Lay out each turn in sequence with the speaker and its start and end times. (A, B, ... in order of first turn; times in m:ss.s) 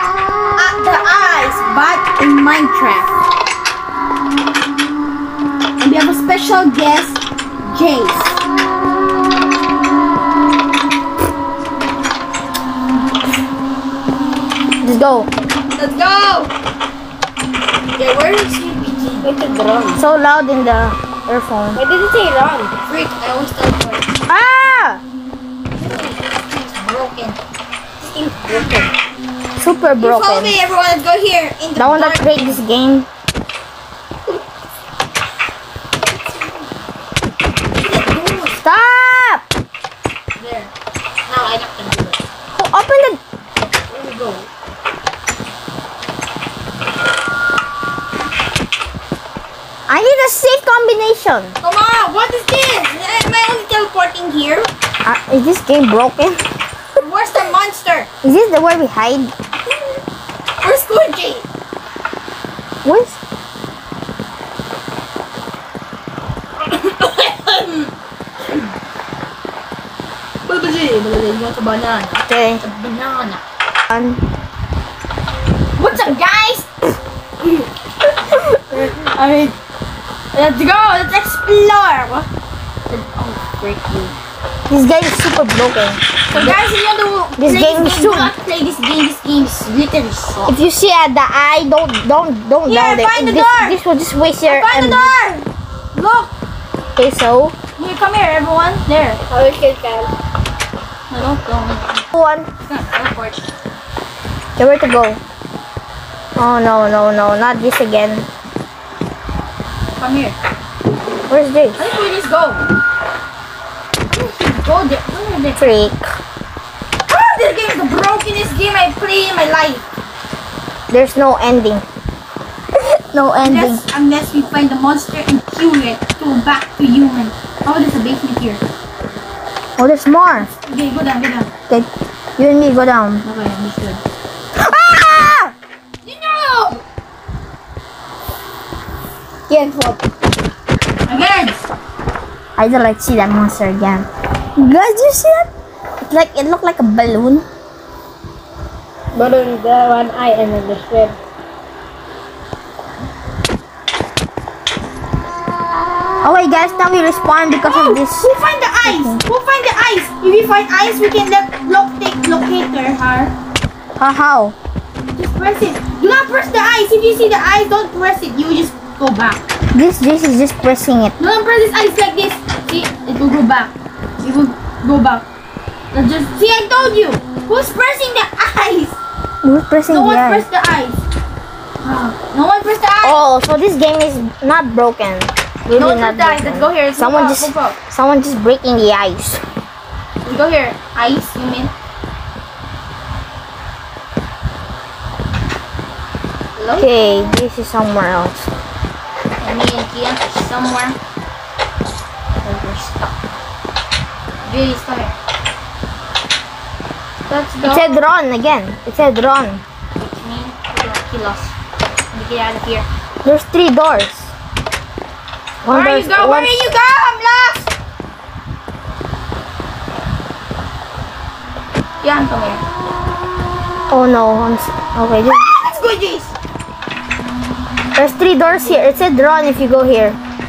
0:00.6-0:03.1 A
0:05.8-0:08.4 A
0:14.8-0:15.3 B
0:15.8-0:16.5 A
0:18.0-0:19.3 A
0:19.2-0:20.0 C
0:20.0-0:21.8 B
0:21.7-0:22.7 C
0:22.8-0:24.1 A
0:24.3-0:25.0 B
0:25.8-0:27.4 A
0:28.1-0:28.9 C
0:29.6-0:30.6 B
0:30.0-0:32.6 A
0:31.8-0:33.1 B
0:37.7-0:38.6 A
0:38.6-0:39.4 B
0:40.4-0:40.7 A
0:41.3-0:42.2 A
0:42.5-0:43.2 B
0:43.9-0:44.5 A
0:49.9-0:51.6 B
0:51.6-0:54.7 A
0:55.0-0:56.4 B
0:57.0-0:58.1 A
0:58.2-0:59.3 B
1:00.6-1:01.4 A
1:02.8-1:03.2 B
1:06.6-1:07.9 A
1:10.5-1:13.4 A
1:12.3-1:12.6 B
1:13.9-1:14.2 B
1:15.8-1:19.5 A
1:20.3-1:22.3 A
1:22.9-1:24.1 A
1:24.7-1:26.6 B
1:26.3-1:30.6 A
1:27.4-1:28.3 B
1:30.5-1:35.2 B
1:32.7-1:33.8 A
1:34.5-1:36.3 A
1:37.0-1:37.6 B
1:37.8-1:39.2 A
1:39.3-1:40.1 C
1:41.1-1:42.1 A
1:42.1-1:42.5 B
1:42.7-1:43.4 A
1:44.6-1:45.2 B
1:46.4-1:48.3 B
1:50.0-1:50.4 A
1:51.3-1:51.8 B
1:51.8-1:52.6 A
1:54.1-1:55.7 A
1:55.6-1:56.1 B
1:57.1-1:59.8 A
2:00.9-2:01.8 B
2:02.8-2:03.8 B
2:03.4-2:08.6 A
2:09.8-2:10.5 B
2:10.4-2:11.5 A
2:11.7-2:13.2 B
2:13.2-2:14.0 A
2:14.6-2:15.5 B
2:16.0-2:16.8 A
2:19.5-2:20.0 C
2:21.1-2:21.6 A
2:22.6-2:25.5 B
2:26.1-2:27.5 B
2:29.1-2:31.2 C
2:36.2-2:38.3 B
2:37.6-2:43.3 A
2:38.8-2:39.2 B
2:44.0-2:44.6 B
2:45.2-2:49.4 A
2:49.7-2:51.2 B
2:51.2-2:55.2 A
2:55.9-2:59.0 A
2:59.4-3:00.5 B
2:59.9-3:01.0 A
3:01.8-3:03.2 A
3:03.0-3:09.4 B
3:05.7-3:07.8 A
3:10.2-3:11.7 A
3:16.6-3:16.9 A
3:16.7-3:18.5 B
3:19.4-3:21.0 A
3:22.4-3:23.2 A
3:24.4-3:25.2 A
3:27.3-3:28.0 A
3:27.6-3:29.6 B
3:30.0-3:31.5 A
3:32.1-3:32.9 A
3:33.2-3:34.3 B
3:35.6-3:36.6 B
3:35.7-3:37.7 A
3:42.0-3:42.6 A
3:43.9-3:45.4 B
3:45.5-3:46.3 A
3:48.0-3:50.2 B
3:48.5-3:48.9 A